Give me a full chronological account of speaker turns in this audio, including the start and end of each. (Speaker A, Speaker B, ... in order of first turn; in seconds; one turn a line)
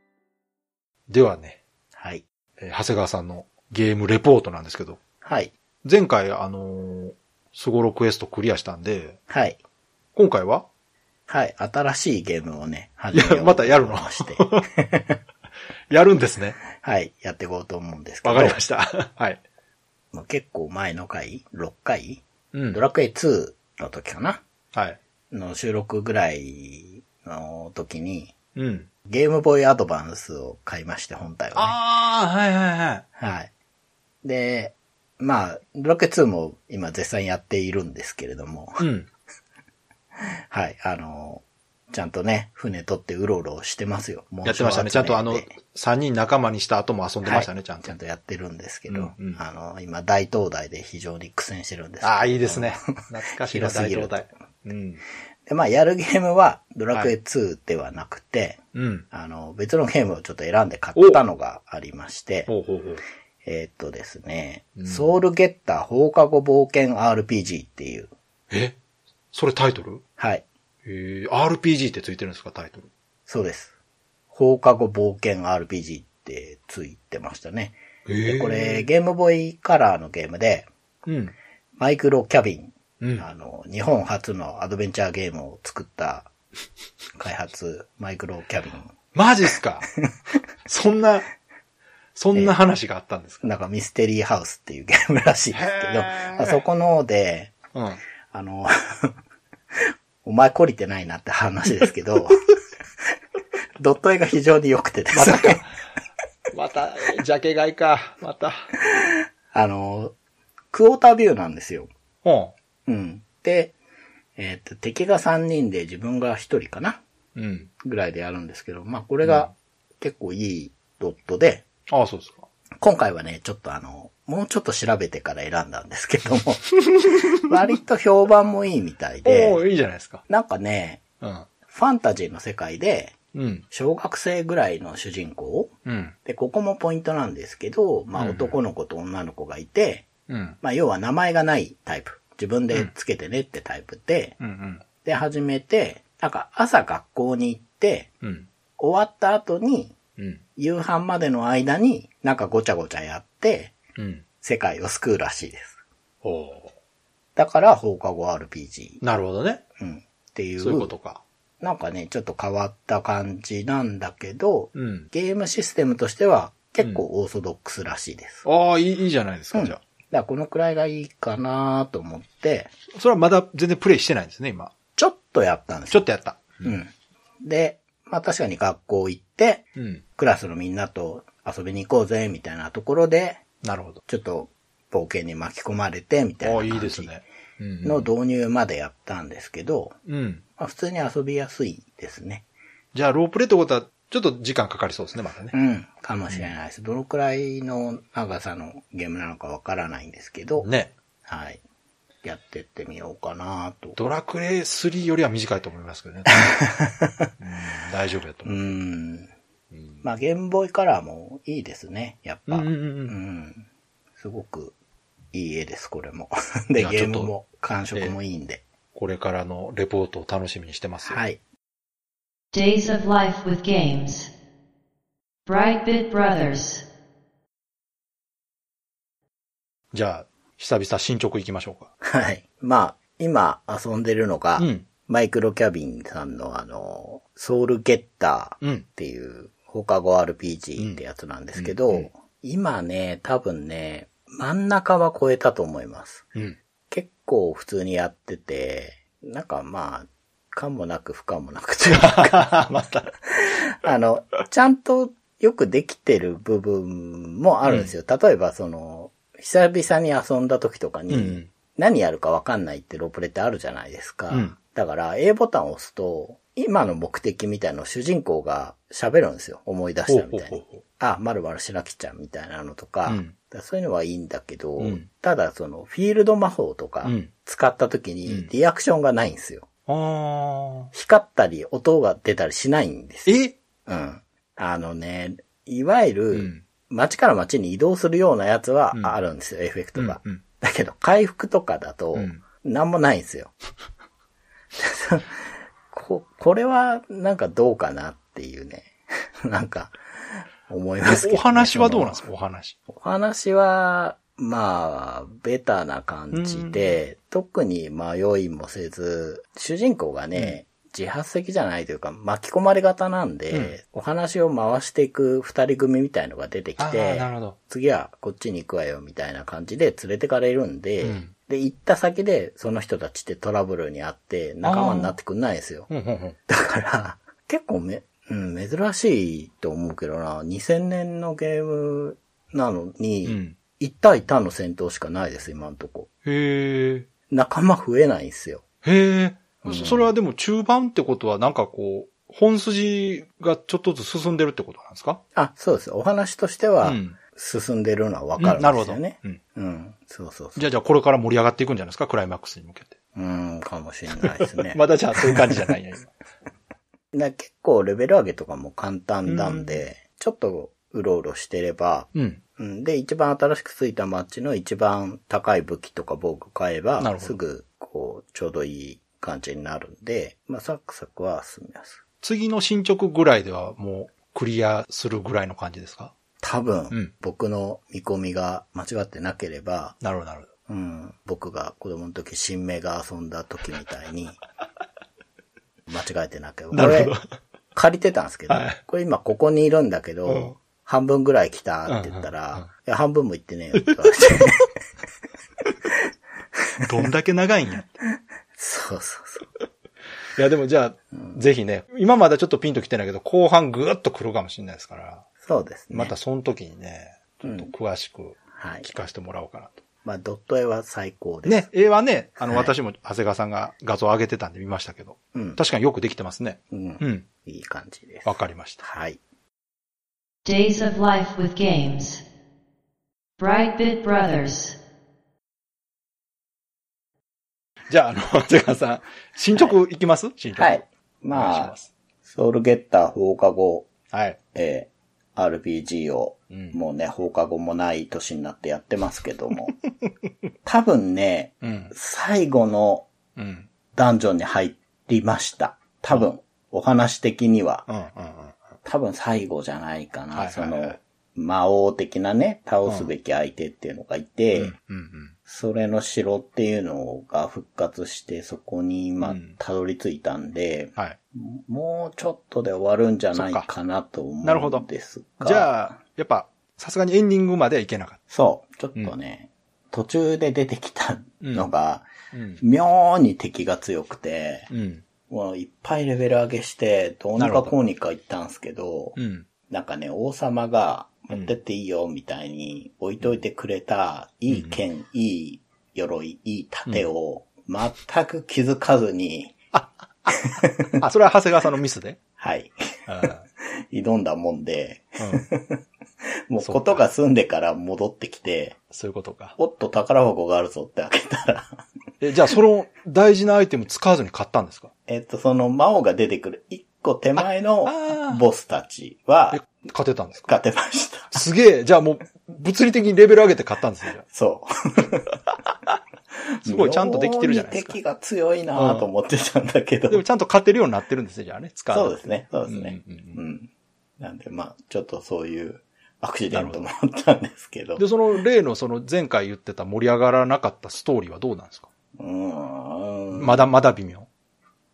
Speaker A: 1.1-1.6
Speaker B: 1.9-2.2
Speaker A: 2.6-5.0
Speaker B: 5.2-5.5
Speaker A: 5.8-9.2
Speaker B: 9.3-9.6
Speaker A: 10.1-10.7
Speaker B: 11.3-15.1
Speaker A: 13.1-14.7
Speaker A: 15.9-16.6
Speaker B: 16.8-18.6
Speaker A: 18.2-19.4
Speaker B: 20.1-24.4
Speaker A: 22.5-22.8
Speaker A: 24.7-25.0
Speaker B: 25.3-28.4
Speaker A: 28.6-28.9
Speaker B: 29.1-31.8
Speaker A: 31.5-33.0
Speaker B: 33.2-33.5
Speaker B: 34.2-38.9
Speaker A: 38.8-39.1
Speaker B: 40.5-45.5
Speaker A: 44.4-47.9
Speaker B: 47.2-54.3
Speaker A: 48.9-49.4
Speaker A: 52.0-55.0
Speaker B: 55.5-58.6
Speaker A: 58.7-59.0
Speaker B: 59.1-62.5
Speaker A: 61.0-61.2
Speaker A: 62.5-63.0
Speaker B: 63.4-68.1
Speaker A: 64.8-65.1
Speaker A: 68.5-68.8
Speaker A: 69.3-70.0
Speaker B: 70.2-70.5
Speaker A: 70.8-72.9
Speaker B: 73.3-73.7
Speaker B: 74.3-80.7
Speaker A: 78.1-78.9
Speaker A: 81.1-81.3
Speaker B: 81.8-86.3
Speaker A: 83.0-83.2
Speaker B: 87.2-88.9
Speaker A: 89.1-89.9
Speaker A: 90.7-91.3
Speaker A: 92.1-93.4
Speaker B: 93.4-97.6
Speaker A: 95.5-96.6
Speaker A: 97.7-98.0
Speaker B: 98.3-99.1
Speaker B: 100.2-102.5
Speaker B: 103.8-105.6
Speaker A: 105.1-105.7
Speaker A: 106.5-108.7
Speaker B: 109.0-110.1
Speaker B: 110.7-111.9
Speaker A: 112.2-112.5
Speaker B: 112.8-113.8
Speaker B: 114.4-117.0
Speaker A: 117.4-117.7
Speaker B: 117.8-121.7
Speaker A: 119.2-119.5
Speaker A: 121.9-122.5
Speaker B: 122.8-126.6
Speaker A: 126.9-127.3
Speaker B: 127.5-129.6
Speaker A: 129.2-130.2
Speaker B: 130.3-131.0
Speaker A: 131.2-131.5
Speaker B: 131.7-133.2
Speaker A: 133.3-133.6
Speaker B: 133.7-135.7
Speaker A: 135.9-136.2
Speaker B: 136.2-140.1
Speaker A: 138.2-138.6
Speaker A: 140.3-140.6
Speaker B: 140.6-144.3
Speaker A: 144.4-144.8
Speaker B: 145.0-148.1
Speaker A: 148.2-148.5
Speaker B: 148.8-150.0
Speaker A: 150.2-150.4
Speaker B: 150.6-153.8
Speaker A: 154.0-154.3
Speaker B: 154.4-155.8
Speaker A: 156.2-156.7
Speaker B: 157.4-159.0
Speaker A: 159.0-159.6
Speaker B: 159.8-160.9
Speaker A: 160.6-161.2
Speaker B: 161.6-168.4
Speaker A: 164.8-165.1
Speaker A: 168.4-169.8
Speaker B: 169.5-172.7
Speaker A: 172.9-174.7
Speaker B: 175.0-176.1
Speaker A: 175.9-176.7
Speaker B: 176.6-176.9
Speaker B: 177.4-179.7
Speaker A: 179.8-180.0
Speaker B: 180.2-183.4
Speaker A: 183.6-184.0
Speaker B: 184.1-187.1
Speaker A: 186.4-188.1
Speaker B: 187.8-189.9
Speaker A: 190.1-190.4
Speaker B: 190.6-192.5
Speaker A: 192.9-195.5
Speaker B: 195.5-200.7
Speaker A: 200.6-200.9
Speaker B: 201.3-201.6
Speaker B: 202.2-204.0
Speaker A: 204.0-206.5
Speaker B: 206.5-207.3
Speaker A: 207.4-208.7
Speaker B: 208.5-209.3
Speaker A: 209.7-210.0
Speaker B: 210.0-213.7
Speaker A: 212.5-213.2
Speaker B: 214.2-214.8
Speaker B: 215.3-218.6
Speaker A: 216.8-217.3
Speaker A: 218.9-221.2
Speaker B: 221.0-221.4
Speaker C: 222.5-224.3
Speaker C: 225.5-226.8
Speaker A: 229.9-231.9
Speaker B: 232.0-246.3
Speaker A: 234.6-234.9
Speaker A: 241.6-242.1
Speaker B: 246.9-252.7
Speaker A: 251.9-253.1
Speaker B: 253.4-279.7
Speaker A: 257.7-257.9
Speaker A: 261.1-261.5
Speaker A: 264.3-264.6
Speaker A: 270.1-270.8
Speaker A: 273.1-273.3
Speaker A: 274.8-275.1
Speaker A: 277.0-277.3
Speaker A: 279.9-280.9
Speaker B: 280.9-293.5
Speaker A: 283.3-283.6
Speaker A: 286.3-286.6
Speaker A: 288.9-289.2
Speaker A: 289.9-290.4
Speaker A: 292.1-292.4
Speaker B: 294.8-302.2
Speaker A: 301.1-302.8
Speaker B: 302.9-325.9
Speaker A: 306.3-307.0
Speaker A: 316.8-317.6
Speaker A: 321.0-321.3
Speaker A: 324.6-325.1
Speaker A: 325.9-326.4
Speaker B: 326.5-336.1
Speaker A: 333.2-333.6
Speaker A: 336.2-337.1
Speaker B: 337.3-338.6
Speaker A: 338.8-345.2
Speaker B: 339.6-340.1
Speaker B: 345.3-350.7
Speaker A: 346.8-347.2
Speaker A: 348.4-349.4
Speaker A: 350.6-353.0
Speaker B: 353.1-355.6
Speaker A: 354.2-356.1
Speaker B: 357.1-372.0
Speaker A: 359.3-359.8
Speaker A: 362.1-362.4
Speaker A: 367.0-367.4
Speaker A: 372.2-376.1
Speaker B: 376.4-379.9
Speaker A: 380.0-380.5
Speaker B: 380.7-384.4
Speaker B: 385.9-387.1
Speaker A: 386.7-387.3
Speaker B: 387.8-394.6
Speaker A: 388.5-388.8
Speaker A: 390.3-390.5
Speaker A: 391.9-392.6
Speaker A: 393.8-394.4
Speaker A: 396.8-398.0
Speaker B: 398.6-399.4
Speaker A: 400.4-405.2
Speaker B: 405.4-406.1
Speaker A: 405.9-409.8
Speaker B: 407.4-407.7
Speaker B: 408.5-408.9
Speaker B: 410.0-411.7
Speaker A: 411.4-417.3
Speaker B: 412.4-412.7
Speaker B: 415.3-415.6
Speaker B: 416.7-419.2
Speaker A: 418.2-418.8
Speaker C: 420.4-422.2
Speaker C: 423.4-424.8
Speaker A: 427.9-430.8
Speaker B: 430.5-433.9
Speaker A: 431.3-431.9
Speaker A: 434.1-434.4
Speaker B: 434.5-439.7
Speaker A: 436.5-436.8
Speaker A: 439.7-440.3
Speaker B: 440.6-443.1
Speaker A: 441.6-441.9
Speaker A: 443.4-443.7
Speaker B: 443.9-447.8
Speaker A: 447.9-448.8
Speaker B: 448.8-454.7
Speaker A: 450.3-451.0
Speaker A: 452.9-453.1
Speaker A: 454.5-455.4
Speaker B: 455.5-465.9
Speaker A: 459.2-459.6
Speaker A: 463.3-463.7
Speaker A: 464.4-464.8
Speaker A: 465.4-468.2
Speaker B: 468.3-472.1
Speaker A: 472.3-472.6
Speaker B: 472.6-474.7
Speaker A: 474.7-475.1
Speaker B: 475.3-479.1
Speaker A: 477.4-477.8
Speaker A: 479.1-479.5
Speaker B: 479.7-489.6
Speaker A: 484.5-484.8
Speaker A: 489.7-492.2
Speaker B: 490.6-490.9
Speaker B: 492.4-492.8
Speaker A: 493.1-493.4
Speaker B: 493.6-495.8
Speaker B: 496.5-498.8
Speaker A: 496.6-497.0
Speaker A: 498.9-499.6
Speaker B: 499.6-501.8
Speaker A: 502.2-504.9
Speaker B: 505.1-509.6
Speaker A: 507.9-508.4
Speaker A: 509.5-510.5
Speaker B: 510.4-511.4
Speaker A: 511.3-514.2
Speaker B: 514.3-515.4
Speaker B: 516.6-520.2
Speaker A: 516.6-518.0
Speaker A: 518.8-519.0
Speaker A: 520.1-523.4
Speaker B: 521.9-528.1
Speaker A: 526.5-526.8
Speaker A: 528.0-531.9
Speaker B: 532.2-533.7
Speaker A: 533.4-534.3